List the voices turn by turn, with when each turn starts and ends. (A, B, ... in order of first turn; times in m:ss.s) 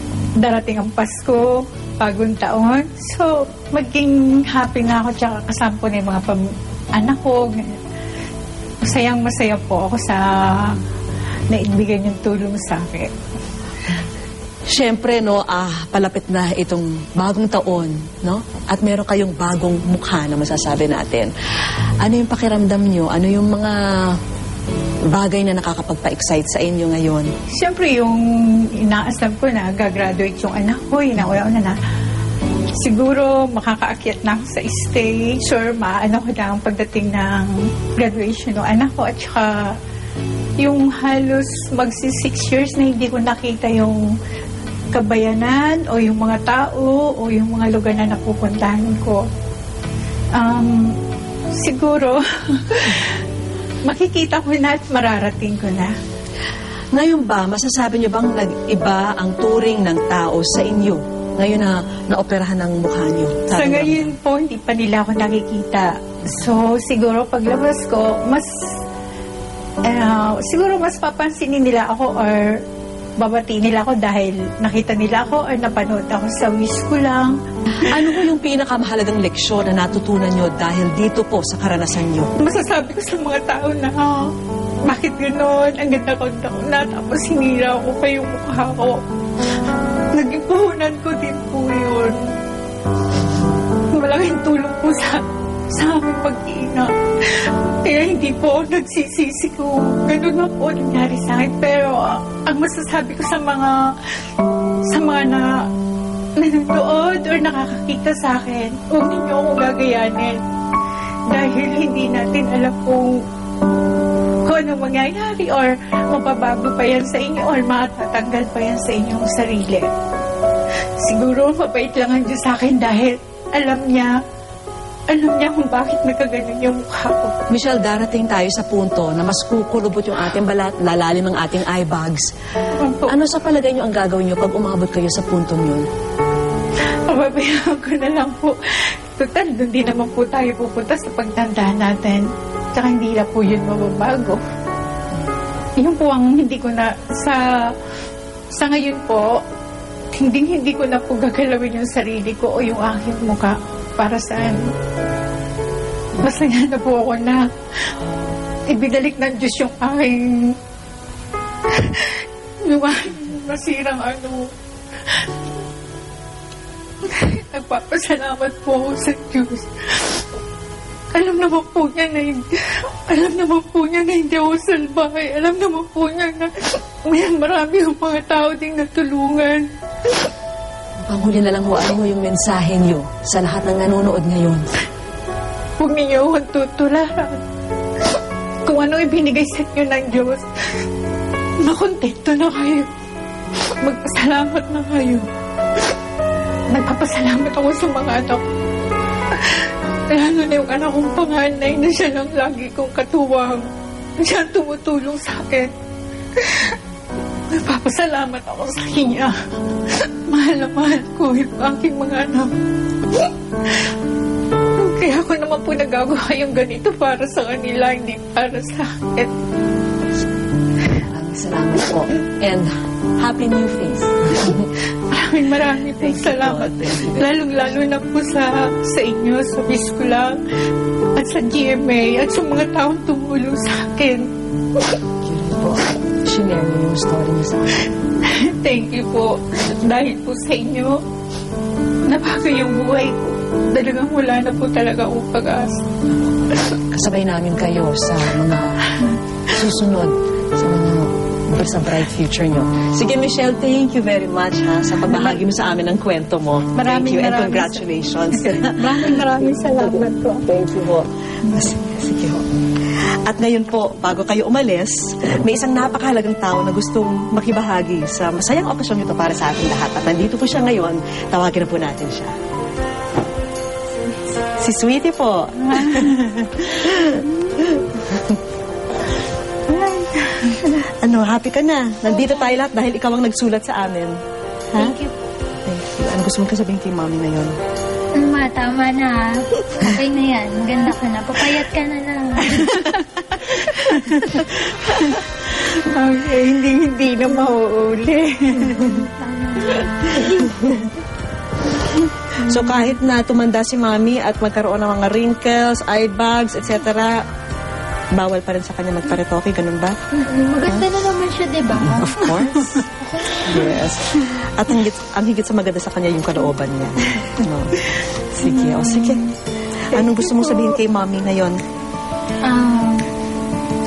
0:00.4-0:07.8 A
0:08.8-0:10.8 A
0:11.5-0:13.1 A
0:14.7-0:21.3 B
0:22.0-0:24.2 B
0:25.1-0:27.3 B
0:27.5-0:31.8 A
0:32.7-0:39.7 A
0:40.6-0:44.1 A
0:44.9-0:49.2 A
0:50.3-0:51.0 A
0:51.5-0:53.2 A
0:53.8-0:55.9 A
0:56.9-1:04.1 B
1:03.5-1:08.8 A
1:09.8-1:12.6 A
1:13.2-1:17.4 A
1:17.8-1:22.3 B
1:22.4-1:24.3 A
1:24.8-1:29.0 A
1:30.1-1:32.3 A
1:33.9-1:43.9 A
1:44.9-1:45.6 A
1:46.4-1:50.4 A
1:51.3-1:53.2 A
1:54.4-1:59.9 A
2:01.0-2:04.1 A
2:05.1-2:07.4 A
2:07.5-2:12.3 B
2:12.7-2:13.1 A
2:13.1-2:15.9 B
2:17.1-2:24.4 A
2:25.8-2:27.4 A
2:28.5-2:29.4 A
2:30.1-2:34.6 A
2:36.2-2:37.4 A
2:38.7-2:40.6 A
2:41.7-2:44.5 A
2:47.0-2:50.2 A
2:51.1-2:59.7 A
3:01.0-3:04.6 B
3:05.8-3:07.4 A
3:08.6-3:10.8 A
3:11.6-3:12.9 A
3:13.7-3:15.3 A
3:16.7-3:18.4 A
3:19.3-3:25.7 A
3:26.3-3:26.8 A
3:27.5-3:29.3 A
3:29.9-3:32.5 A
3:33.1-3:33.8 A
3:34.8-3:39.3 A
3:40.9-3:44.7 B
3:44.9-3:50.4 A
3:46.0-3:47.3 B
3:51.1-3:54.3 A
3:55.2-3:57.9 B
3:58.2-4:01.0 A
4:02.0-4:05.8 A
4:06.6-4:19.2 B
4:15.0-4:15.4 A
4:16.7-4:20.5 A
4:19.8-4:32.3 B
4:34.5-4:38.4 B
4:35.6-4:36.4 A
4:39.7-4:40.6 A
4:40.6-4:44.2 B
4:42.2-4:42.5 C
4:44.8-4:45.1 C
4:45.6-4:47.6 B
4:48.1-4:52.8 C
4:52.5-4:59.1 A
4:58.8-5:00.5 C
5:00.2-5:00.9 B
5:02.4-5:07.2 B
5:08.1-5:10.0 B
5:10.1-5:12.4 C
5:11.7-5:12.8 B
5:13.0-5:13.7 C
5:13.4-5:19.3 B
5:18.4-5:19.2 A
5:19.9-5:21.6 B
5:20.0-5:20.7 A
5:22.4-5:23.1 C